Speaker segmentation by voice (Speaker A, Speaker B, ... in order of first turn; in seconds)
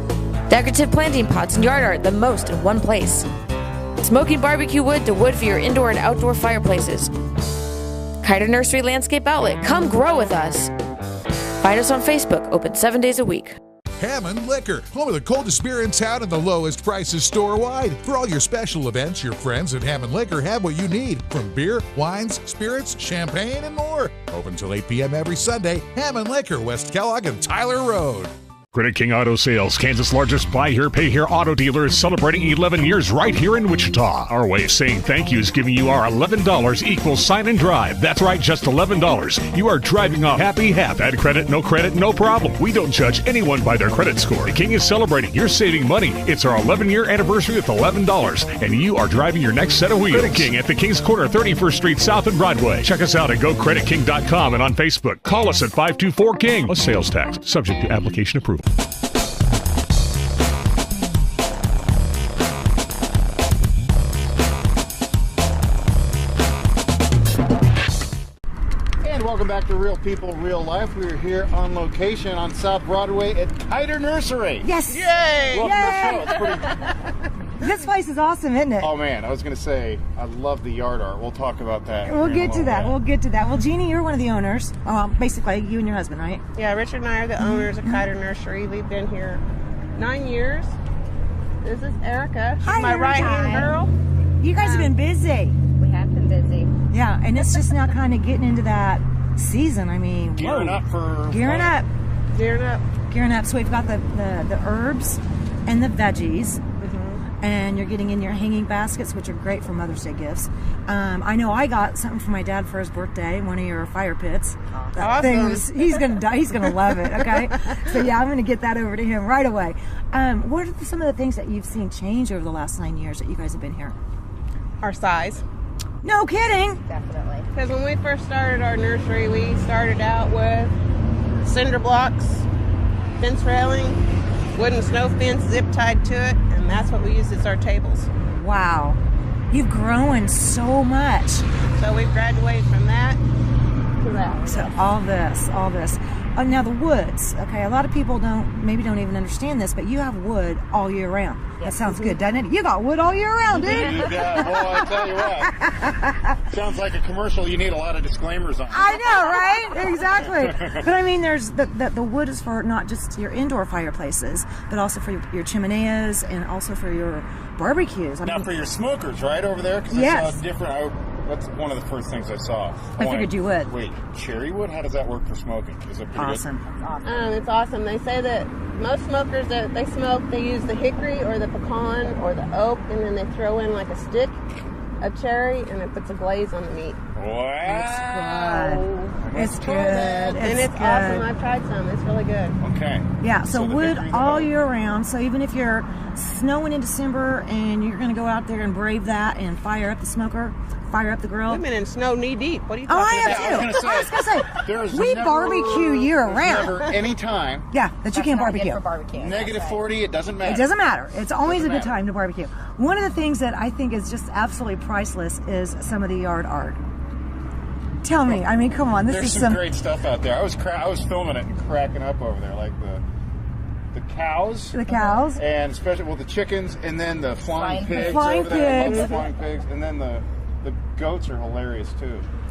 Speaker A: 0.5-3.3, 4.0-7.1, 8.2-10.7, 11.6-13.6
Speaker B: 14.0-28.3
Speaker C: 28.7-58.6
Speaker D: 69.0-77.0, 78.8-83.0, 100.3-101.8, 153.5-155.6, 156.5-159.2, 160.4-160.8, 168.2-176.5, 187.2-190.2, 192.6-194.5, 203.2-207.7, 209.1-210.7, 211.4-212.0, 219.1-223.0, 223.9-224.8, 225.3-232.3
Speaker E: 74.6-76.5, 77.6-78.9, 82.0-86.4, 87.4-88.0, 92.6-93.8, 94.4-95.6, 96.9-101.9, 103.1-106.6, 107.4-124.0, 126.0-126.8, 138.3-139.0, 139.5-141.5, 144.5-156.4, 158.7-168.7, 169.9-170.4, 173.0-173.8, 176.2-176.6, 187.6-191.2, 193.2-201.6, 202.9-206.9, 207.7-208.8, 210.4-216.8, 218.0-219.7, 224.7-225.4, 227.9-229.2
Speaker F: 86.5-89.4, 89.9-90.8, 91.6-93.9, 94.5-95.0, 102.3-102.9, 106.8-107.2, 115.0-116.0, 124.8-125.5, 127.5-130.8, 131.4-132.5, 133.2-134.0, 134.5-138.1, 141.8-143.2, 144.0-144.7, 177.1-184.4, 185.0-187.0, 190.0-192.6, 201.5-203.7
Speaker G: 93.2-93.7, 95.8-96.7, 126.9-127.5, 151.6-152.2, 176.9-177.4, 208.1-209.9, 227.4-229.2